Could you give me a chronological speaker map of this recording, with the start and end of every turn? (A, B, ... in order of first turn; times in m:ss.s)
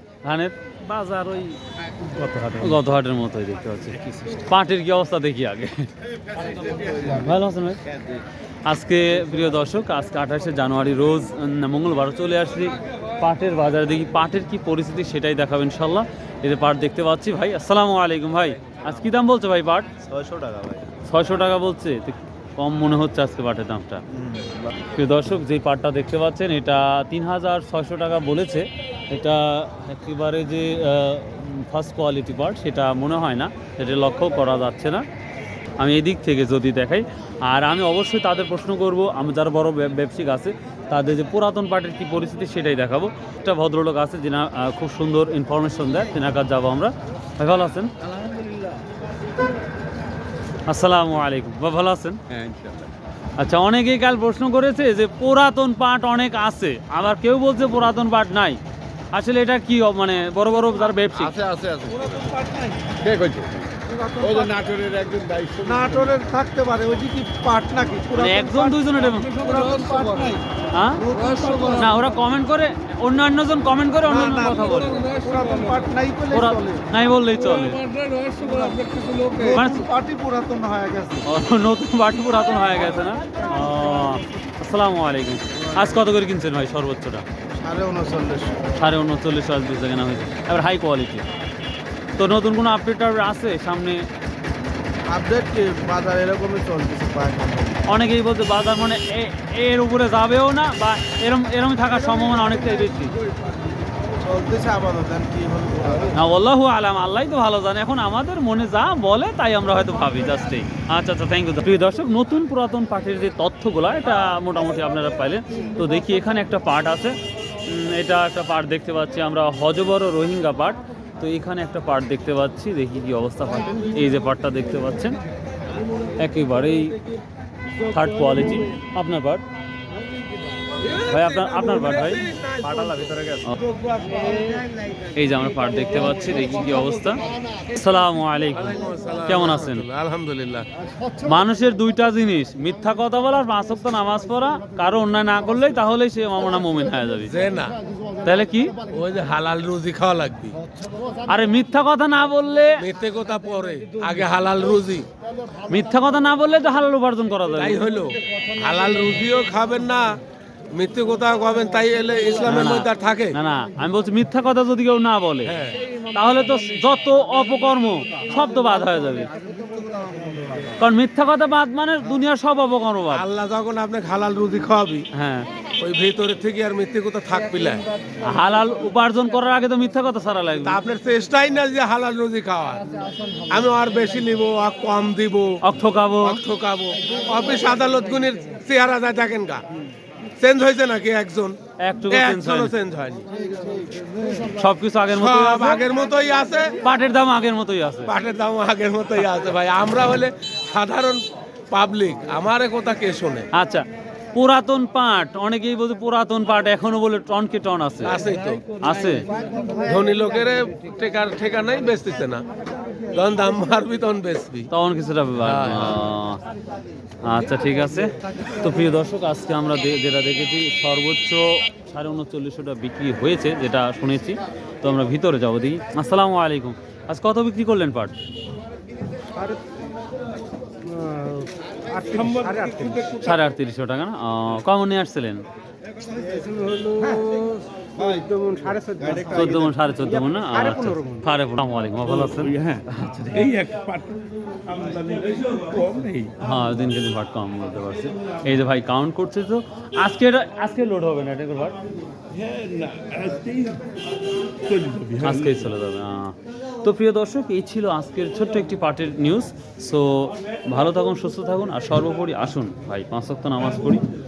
0:00.2-0:01.5 A
0:02.1-0:05.9 A
0:07.1-0:07.8 A
0:08.6-0:19.9 A
0:20.0-0:20.9 B
0:21.0-0:24.0 A
0:24.3-0:24.6 B
0:24.9-0:35.0 A
0:35.8-0:47.9 A
0:50.7-0:52.2 A
0:52.3-0:52.9 B
0:53.4-0:58.6 A
0:59.1-1:01.4 A
1:01.1-1:06.2 B
1:03.9-1:04.6 C
1:05.6-1:10.4 C
1:08.1-1:09.4 A
1:10.7-1:11.1 A
1:11.0-1:12.0 C
1:11.7-1:15.1 A
1:14.0-1:16.8 C
1:15.1-1:15.5 D
1:16.3-1:17.8 A
1:17.7-1:19.4 D
1:18.4-1:18.8 C
1:19.3-1:21.2 C
1:19.4-1:19.9 A
1:21.2-1:27.2 A
1:25.5-1:26.1 C
1:27.6-1:28.7 C
1:28.8-1:31.2 A
1:32.2-1:34.0 A
1:35.1-1:37.9 C
1:37.8-1:43.2 A
1:44.2-1:46.2 C
1:46.1-2:05.2 A
2:06.2-2:07.0 A
2:07.8-2:09.4 A
2:10.8-2:13.0 D
2:11.1-2:12.2 A
2:12.6-2:13.4 B
2:14.1-2:14.6 D
2:15.1-2:19.8 A
2:18.5-2:20.7 D
2:21.2-2:27.3 A
2:27.3-2:27.8 D
2:28.2-2:28.7 A
2:28.9-2:30.6 D
2:31.3-2:32.8 A
2:32.8-2:35.1 D
2:35.7-2:37.8 A
2:37.6-2:40.2 D
2:40.7-2:43.4 D
2:42.4-2:45.6 A
2:45.4-2:45.8 D
2:46.1-2:49.3 A
2:49.4-2:50.6 C
2:50.8-2:53.2 A
2:53.1-2:55.1 D
2:55.1-2:55.5 A
2:55.8-2:57.8 D
2:58.2-3:00.8 A
3:00.6-3:05.5 D
3:05.6-3:06.4 A
3:06.2-3:09.6 D
3:10.4-3:11.6 D
3:11.8-3:12.7 A
3:12.1-3:13.3 D
3:14.5-3:15.8 A
3:15.1-3:16.8 D
3:16.8-3:18.1 A
3:18.0-3:23.5 D
3:23.5-3:28.2 A
3:28.0-3:28.8 D
3:28.8-3:29.3 A
3:29.8-3:32.4 D
3:33.1-3:34.7 D
3:34.7-3:36.4 A
3:35.4-3:36.0 D
3:37.2-3:48.1 A
3:50.9-3:53.0 C
3:52.2-3:53.2 D
3:52.4-3:52.9 B
3:53.2-3:55.4 A
3:56.2-4:01.3 C
3:59.0-3:59.2 B
3:59.3-4:03.5 A
4:02.1-4:02.8 D
4:03.3-4:06.3 D
4:06.4-4:11.8 A
4:12.3-4:13.8 D
4:14.7-4:15.6 D
4:15.2-4:24.0 A